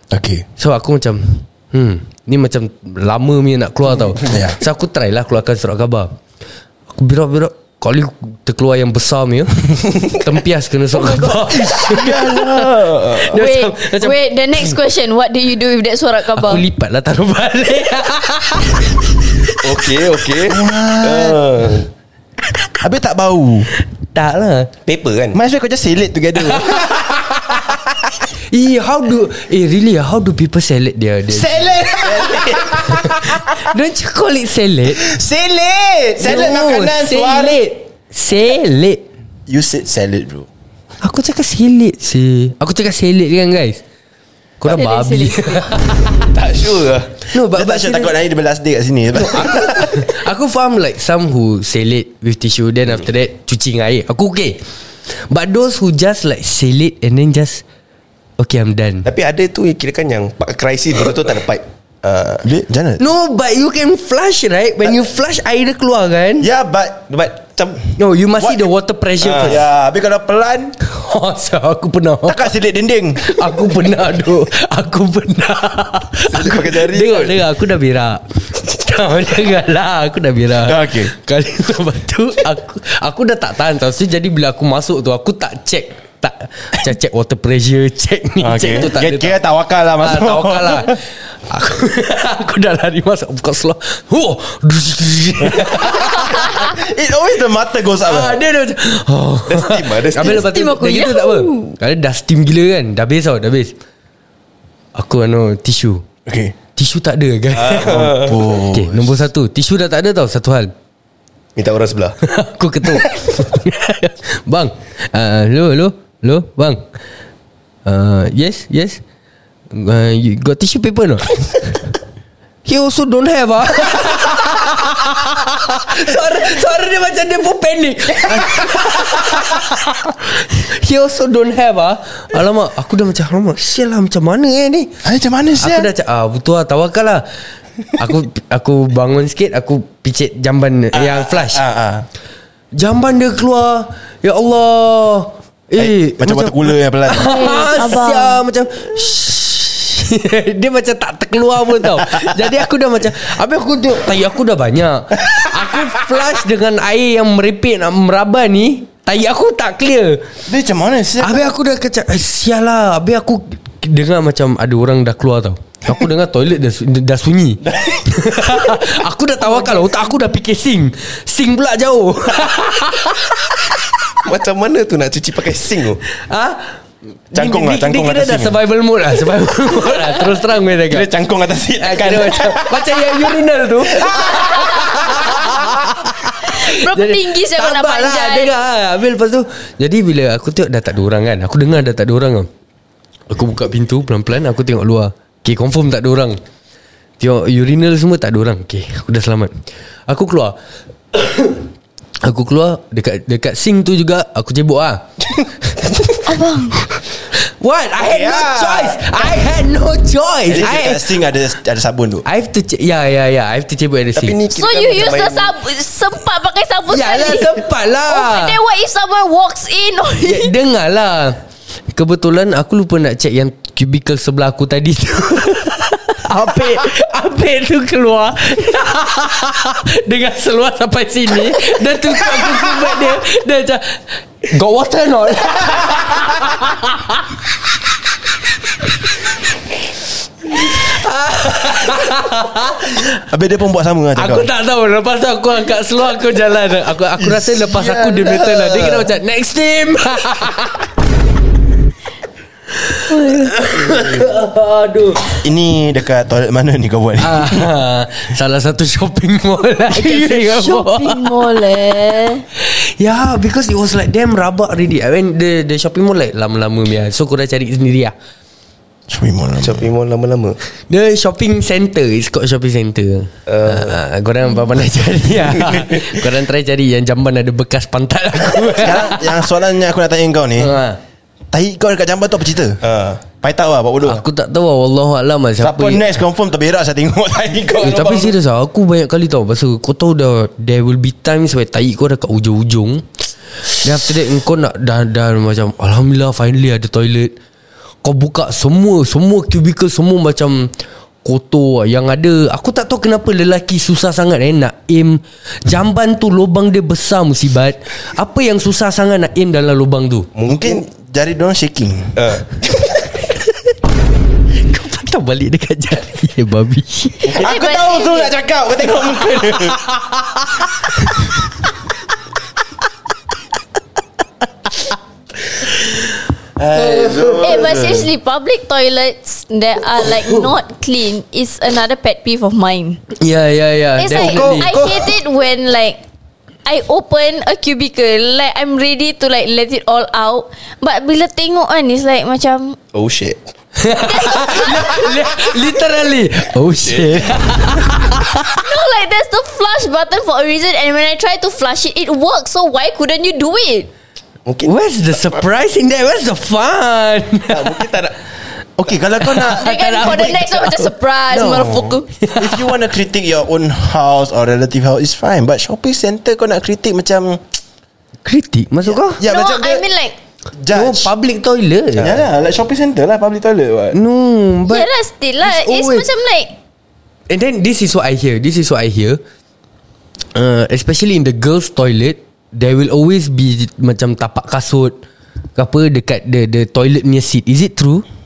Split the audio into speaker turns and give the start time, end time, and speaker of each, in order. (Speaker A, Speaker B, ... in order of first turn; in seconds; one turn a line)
Speaker A: 0.1-0.5
Speaker B: 0.6-6.2
Speaker A: 4.2-4.6
Speaker B: 6.9-12.4
Speaker A: 11.7-13.0
Speaker C: 11.9-13.4
Speaker B: 13.2-14.2
Speaker D: 13.3-16.6
Speaker B: 16.4-19.6
Speaker C: 19.6-21.9
Speaker A: 20.4-21.5
Speaker A: 22.8-23.7
Speaker B: 24.1-24.7
Speaker C: 24.9-25.4
Speaker A: 25.3-27.9
Speaker B: 26.6-27.0
Speaker B: 28.5-31.7
Speaker A: 31.3-33.7
Speaker B: 32.3-35.0
Speaker A: 35.0-37.6
Speaker B: 36.2-39.0
Speaker A: 39.5-40.5
Speaker B: 41.0-43.8
Speaker B: 44.6-46.2
Speaker D: 44.7-45.8
Speaker C: 46.3-47.1
Speaker B: 47.3-48.2
Speaker A: 47.5-50.0
Speaker B: 49.1-54.6
Speaker B: 55.3-57.6
Speaker B: 58.4-59.1
Speaker C: 59.0-62.4
Speaker A: 62.4-63.0
Speaker B: 63.0-66.5
Speaker A: 66.4-67.1
Speaker C: 67.1-67.8
Speaker B: 68.0-69.6
Speaker A: 68.4-68.6
Speaker C: 69.2-69.6
Speaker A: 69.3-70.8
Speaker B: 70.8-72.5
Speaker A: 72.2-73.6
Speaker B: 73.2-89.4
Speaker C: 76.3-77.4
Speaker A: 80.6-81.1
Speaker A: 88.4-91.0
Speaker B: 90.0-91.0
Speaker B: 91.5-96.7
Speaker A: 95.5-98.4
Speaker B: 98.0-103.7
Speaker C: 99.5-100.5
Speaker D: 100.2-101.7
Speaker B: 104.9-106.0
Speaker A: 106.2-106.5
Speaker B: 106.8-108.1
Speaker C: 107.5-108.5
Speaker A: 107.7-109.2
Speaker B: 108.7-110.7
Speaker C: 111.5-112.2
Speaker B: 112.2-116.8
Speaker B: 117.8-119.0
Speaker B: 119.7-121.5
Speaker B: 122.6-134.9
Speaker A: 135.0-135.9
Speaker B: 135.6-137.2
Speaker B: 138.0-141.6
Speaker A: 140.9-142.1
Speaker B: 142.8-160.2
Speaker A: 145.8-147.4
Speaker D: 147.2-148.4
Speaker A: 160.5-161.5
Speaker B: 161.2-173.6
Speaker C: 174.2-176.0
Speaker B: 176.3-176.6
Speaker B: 177.3-181.1
Speaker A: 177.3-178.6
Speaker A: 180.9-185.7
Speaker B: 181.8-192.5
Speaker D: 184.3-184.9
Speaker D: 186.4-188.5
Speaker B: 193.3-196.4
Speaker B: 197.2-199.5
Speaker B: 200.1-200.6
Speaker B: 201.1-201.6
Speaker B: 202.2-205.1
Speaker D: 206.3-206.8
Speaker B: 207.6-211.1
Speaker A: 208.0-209.3
Speaker A: 210.5-212.2
Speaker B: 212.2-214.4
Speaker C: 214.1-215.5
Speaker D: 214.5-220.5
Speaker B: 216.9-218.6
Speaker B: 220.2-221.4
Speaker B: 221.9-237.4
Speaker B: 240.5-243.1
Speaker A: 243.3-244.5
Speaker B: 244.2-250.8
Speaker C: 247.8-248.2
Speaker B: 252.9-255.4
Speaker D: 253.1-253.5
Speaker A: 255.4-257.7
Speaker B: 257.2-261.3
Speaker D: 259.9-262.4
Speaker B: 262.6-268.1
Speaker A: 269.1-269.9
Speaker C: 269.6-270.6
Speaker B: 270.9-279.4
Speaker C: 273.5-274.0
Speaker C: 275.5-276.2
Speaker A: 278.7-280.7
Speaker B: 280.6-281.0
Speaker A: 281.5-282.8
Speaker C: 282.8-283.2
Speaker A: 283.4-284.2
Speaker B: 284.0-286.1
Speaker A: 285.6-288.4
Speaker B: 287.8-293.1
Speaker B: 293.8-297.3
Speaker B: 298.0-300.7
Speaker B: 301.2-310.3
Speaker C: 310.3-310.8
Speaker A: 310.4-312.3
Speaker C: 312.1-312.9
Speaker B: 314.7-317.4
Speaker A: 317.2-319.8
Speaker D: 317.3-318.3
Speaker A: 326.6-328.1
Speaker C: 326.9-327.8
Speaker D: 327.4-333.0
Speaker B: 333.1-335.0
Speaker D: 334.0-336.0
Speaker A: 334.2-334.9
Speaker D: 336.6-342.8
Speaker C: 342.9-343.5
Speaker B: 343.8-348.6
Speaker D: 344.0-345.2
Speaker C: 346.8-347.5
Speaker D: 348.6-353.9
Speaker C: 354.4-354.7
Speaker B: 354.6-357.8
Speaker C: 357.5-358.1
Speaker A: 358.8-360.6
Speaker B: 359.2-360.9
Speaker D: 359.5-362.1
Speaker A: 361.3-367.4
Speaker B: 362.2-362.6
Speaker B: 368.2-369.2
Speaker A: 368.8-369.8
Speaker D: 369.2-370.1
Speaker A: 370.6-371.1
Speaker B: 370.7-372.2
Speaker A: 371.9-374.0
Speaker B: 373.9-374.9
Speaker D: 374.6-376.5
Speaker B: 375.4-376.1
Speaker B: 377.3-379.2
Speaker B: 380.3-385.0
Speaker B: 385.6-388.1